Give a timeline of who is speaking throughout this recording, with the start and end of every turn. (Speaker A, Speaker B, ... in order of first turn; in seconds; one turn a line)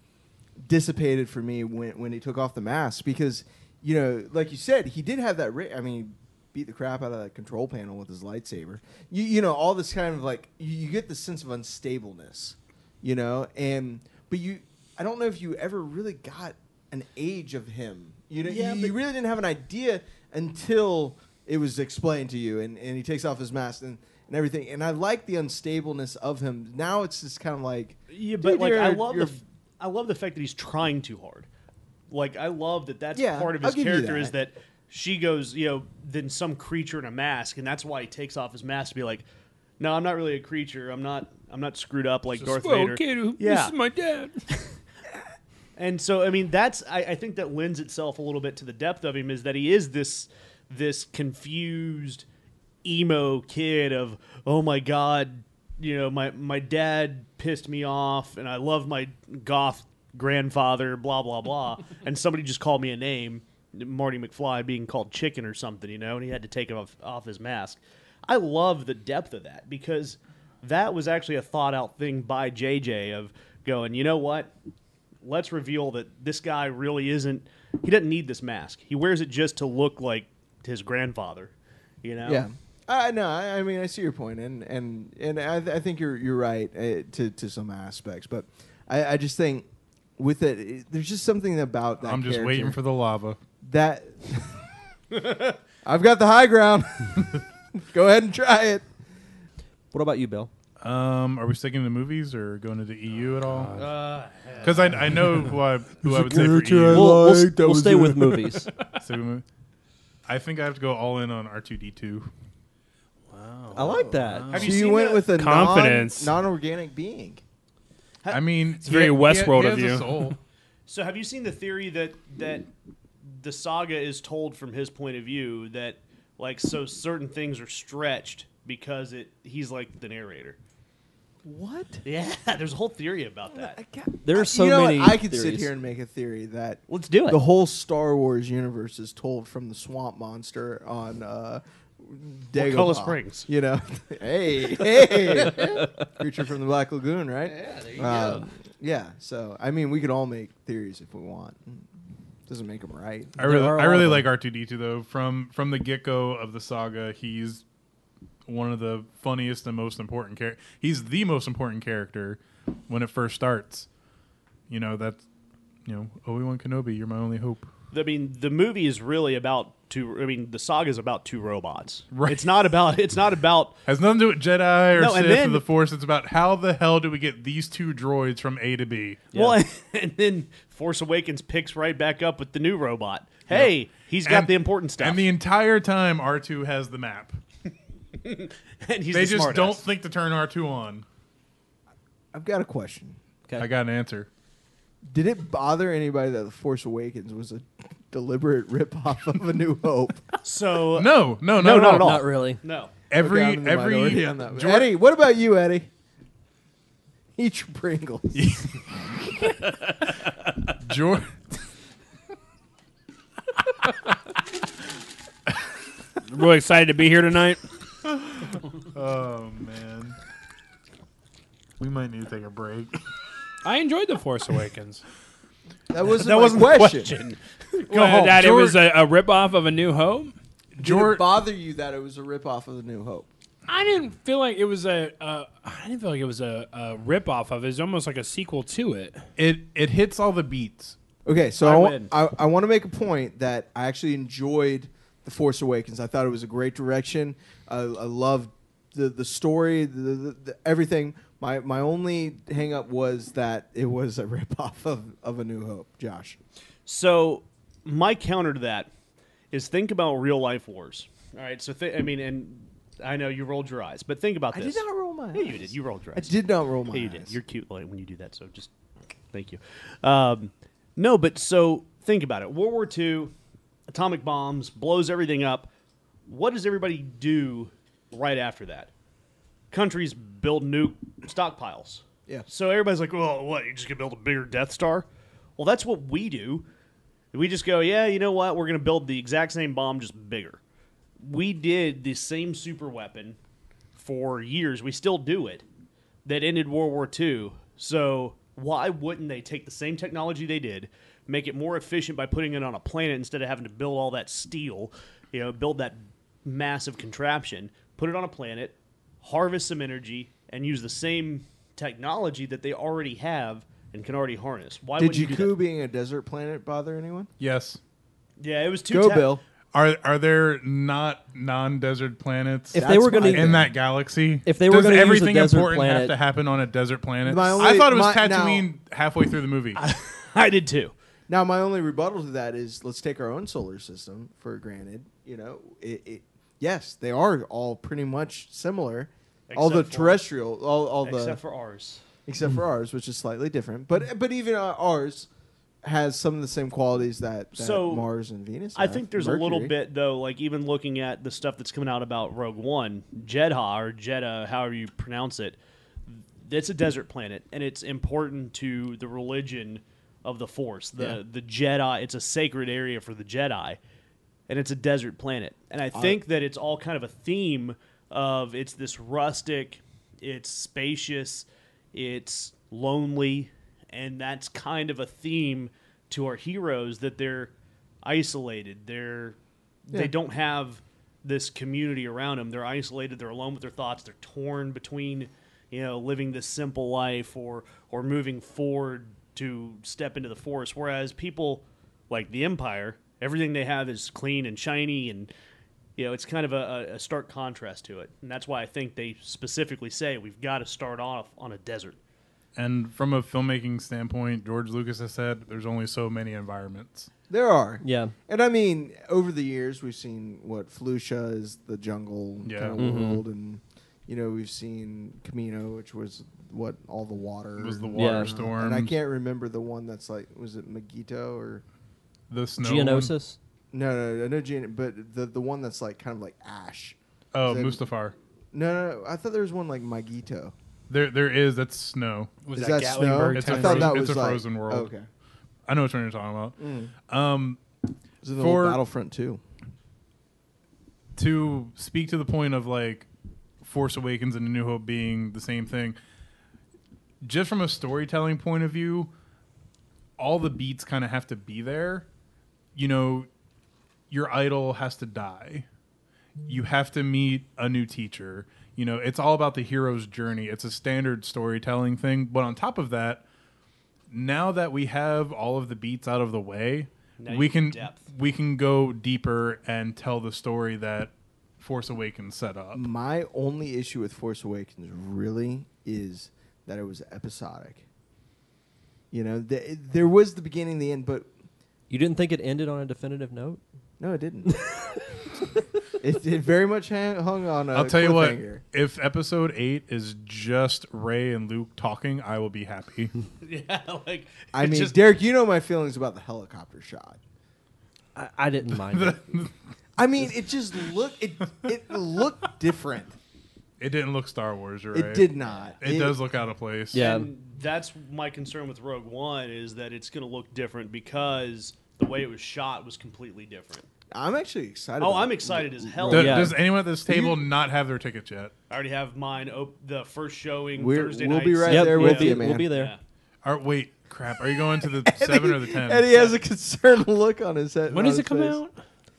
Speaker A: 0.6-29.4
Speaker B: 18.4-19.0
Speaker B: 28.1-31.5
Speaker B: 32.1-39.2
Speaker A: 33.1-34.4
Speaker B: 39.8-43.8
Speaker C: 42.4-44.4
Speaker B: 45.8-52.3
Speaker B: 52.8-74.5
Speaker B: 75.2-82.5
Speaker A: 82.2-89.7
Speaker A: 90.2-92.8
Speaker D: 92.0-93.4
Speaker A: 93.6-94.7
Speaker B: 95.2-95.5
Speaker A: 95.8-98.9
Speaker E: 99.9-100.5
Speaker D: 100.8-103.8
Speaker C: 103.5-104.0
Speaker B: 103.8-105.0
Speaker D: 104.6-107.2
Speaker C: 104.6-105.5
Speaker A: 106.0-108.6
Speaker E: 106.8-108.7
Speaker D: 109.0-109.5
Speaker D: 110.3-112.3
Speaker C: 113.3-116.3
Speaker E: 113.7-114.5
Speaker B: 114.5-115.3
Speaker A: 114.5-117.4
Speaker D: 118.3-120.4
Speaker C: 118.8-120.4
Speaker B: 120.9-122.7
Speaker B: 123.4-130.6
Speaker A: 131.4-132.0
Speaker B: 132.0-133.8
Speaker A: 133.5-151.9
Speaker E: 134.2-135.7
Speaker B: 136.9-137.4
Speaker B: 142.6-143.5
Speaker B: 145.2-145.8
Speaker B: 147.6-148.5
Speaker A: 152.5-153.4
Speaker D: 153.4-157.6
Speaker E: 153.4-154.3
Speaker D: 158.5-163.9
Speaker D: 164.7-165.2
Speaker D: 165.8-167.7
Speaker B: 167.9-173.8
Speaker D: 172.1-172.4
Speaker D: 173.9-179.3
Speaker B: 175.0-175.7
Speaker B: 179.3-185.2
Speaker E: 179.3-179.6
Speaker D: 184.2-187.4
Speaker B: 188.2-189.8
Speaker D: 189.1-191.1
Speaker A: 192.3-193.2
Speaker D: 193.6-194.3
Speaker A: 195.1-200.3
Speaker B: 200.4-202.9
Speaker D: 200.9-202.2
Speaker E: 201.9-202.6
Speaker D: 203.1-204.9
Speaker A: 203.2-205.9
Speaker A: 207.4-209.6
Speaker D: 208.4-208.7
Speaker D: 210.7-211.5
Speaker C: 216.2-217.6
Speaker D: 218.1-220.2
Speaker D: 221.8-223.0
Speaker C: 223.6-225.0
Speaker A: 225.9-227.2
Speaker B: 226.1-228.5
Speaker C: 227.9-230.3
Speaker D: 227.9-228.8
Speaker D: 230.8-231.3
Speaker A: 230.8-233.3
Speaker C: 233.7-239.3
Speaker D: 239.4-241.0
Speaker A: 241.2-256.4
Speaker B: 241.6-242.1
Speaker B: 256.9-258.9
Speaker B: 259.5-266.3
Speaker A: 264.5-267.4
Speaker B: 266.9-268.7
Speaker B: 269.3-273.3
Speaker B: 273.9-275.7
Speaker B: 276.3-278.9
Speaker B: 279.7-286.7
Speaker B: 287.3-290.6
Speaker B: 291.2-293.4
Speaker B: 293.9-295.6
Speaker B: 296.2-315.6
Speaker A: 315.0-317.3
Speaker D: 317.4-317.8
Speaker B: 318.4-319.4
Speaker A: 318.9-319.4
Speaker D: 319.7-329.8
Speaker E: 322.7-323.7
Speaker A: 322.8-323.7
Speaker E: 324.4-326.1
Speaker A: 327.2-328.7
Speaker B: 329.8-330.9
Speaker A: 331.3-341.4
Speaker B: 339.5-340.2
Speaker B: 341.0-342.0
Speaker A: 342.3-345.3
Speaker A: 345.8-349.7
Speaker B: 347.6-348.1
Speaker B: 348.8-363.8
Speaker B: 364.5-379.4
Speaker A: 365.9-366.2
Speaker B: 379.9-395.3
Speaker B: 396.0-402.0
Speaker D: 402.6-407.1
Speaker A: 407.3-421.6
Speaker E: 407.8-408.1
Speaker D: 412.4-412.9
Speaker E: 412.8-413.2
Speaker D: 417.6-418.9
Speaker E: 417.9-418.3
Speaker D: 422.3-423.1
Speaker E: 422.6-423.4
Speaker A: 423.7-427.8
Speaker D: 427.3-428.1
Speaker A: 428.5-430.5
Speaker D: 430.9-432.4
Speaker C: 432.5-434.1
Speaker A: 432.5-435.1
Speaker D: 433.1-434.9
Speaker D: 435.7-437.6
Speaker A: 436.6-436.9
Speaker A: 438.2-439.4
Speaker D: 438.4-438.8
Speaker D: 441.1-443.1
Speaker D: 443.6-446.0
Speaker D: 447.2-449.1
Speaker D: 450.2-452.1
Speaker D: 452.8-453.3
Speaker D: 454.1-455.7
Speaker D: 456.5-463.2
Speaker D: 464.1-472.8
Speaker B: 467.2-468.1
Speaker A: 472.7-477.9
Speaker A: 479.1-481.3
Speaker E: 481.9-483.6
Speaker A: 484.0-484.6
Speaker A: 486.0-488.6
Speaker D: 487.7-493.1
Speaker B: 493.4-495.0
Speaker A: 494.5-497.2
Speaker E: 498.1-499.4
Speaker D: 498.7-499.5
Speaker A: 500.0-503.1
Speaker D: 503.8-505.3
Speaker A: 504.9-506.2
Speaker D: 505.8-507.1
Speaker E: 506.9-507.3
Speaker B: 506.9-513.9
Speaker A: 514.1-517.4
Speaker B: 515.0-516.5
Speaker D: 516.1-518.5
Speaker E: 516.1-516.5
Speaker B: 518.7-523.0
Speaker A: 520.8-522.7
Speaker E: 521.7-522.9
Speaker D: 523.4-526.1
Speaker A: 524.8-528.6
Speaker C: 527.9-528.7